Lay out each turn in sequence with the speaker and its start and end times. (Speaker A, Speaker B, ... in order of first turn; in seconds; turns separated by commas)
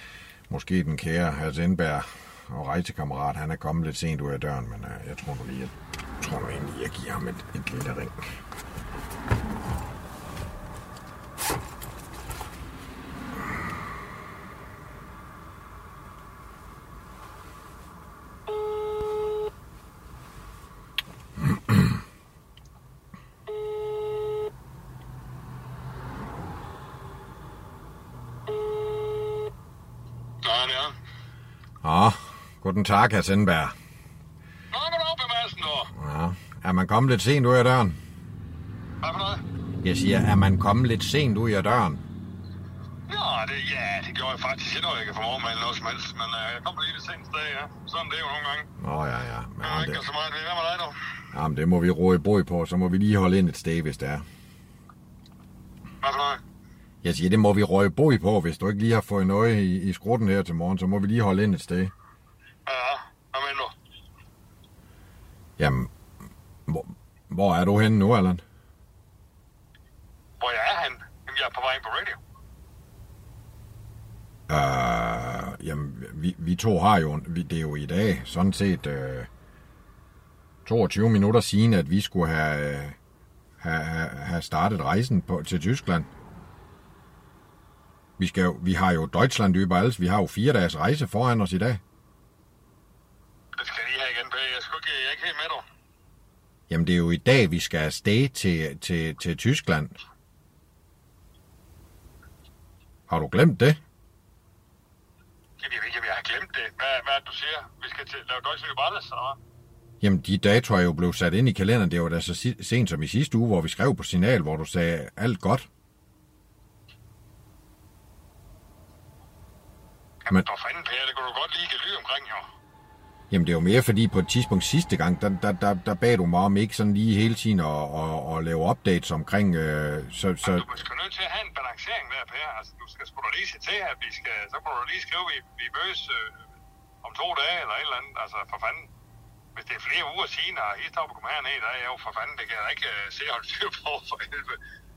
Speaker A: 0.5-8.2, Speaker B: 30.4-30.9, Speaker A: 31.8-33.8, Speaker B: 34.7-35.9, Speaker A: 35.9-38.0, Speaker B: 39.0-39.4, Speaker A: 39.8-42.0, Speaker B: 43.1-48.7, Speaker A: 48.8-50.0, Speaker B: 49.6-51.0, Speaker A: 51.3-54.2, Speaker B: 56.0-56.4, Speaker A: 57.0-61.9, Speaker B: 62.7-63.7, Speaker A: 65.6-65.9, Speaker A: 66.7-68.4, Speaker B: 70.4-72.2, Speaker A: 74.5-79.3, Speaker A: 80.7-83.0, Speaker A: 83.6-86.1, Speaker A: 88.2-91.8, Speaker B: 93.6-95.6, Speaker A: 96.7-100.0, Speaker A: 103.1-103.8, Speaker B: 105.6-109.4, Speaker A: 110.0-115.7, Speaker B: 120.3-122.4, Speaker A: 123.3-130.7, Speaker B: 130.4-136.3, Speaker B: 137.0-138.9, Speaker B: 139.6-144.6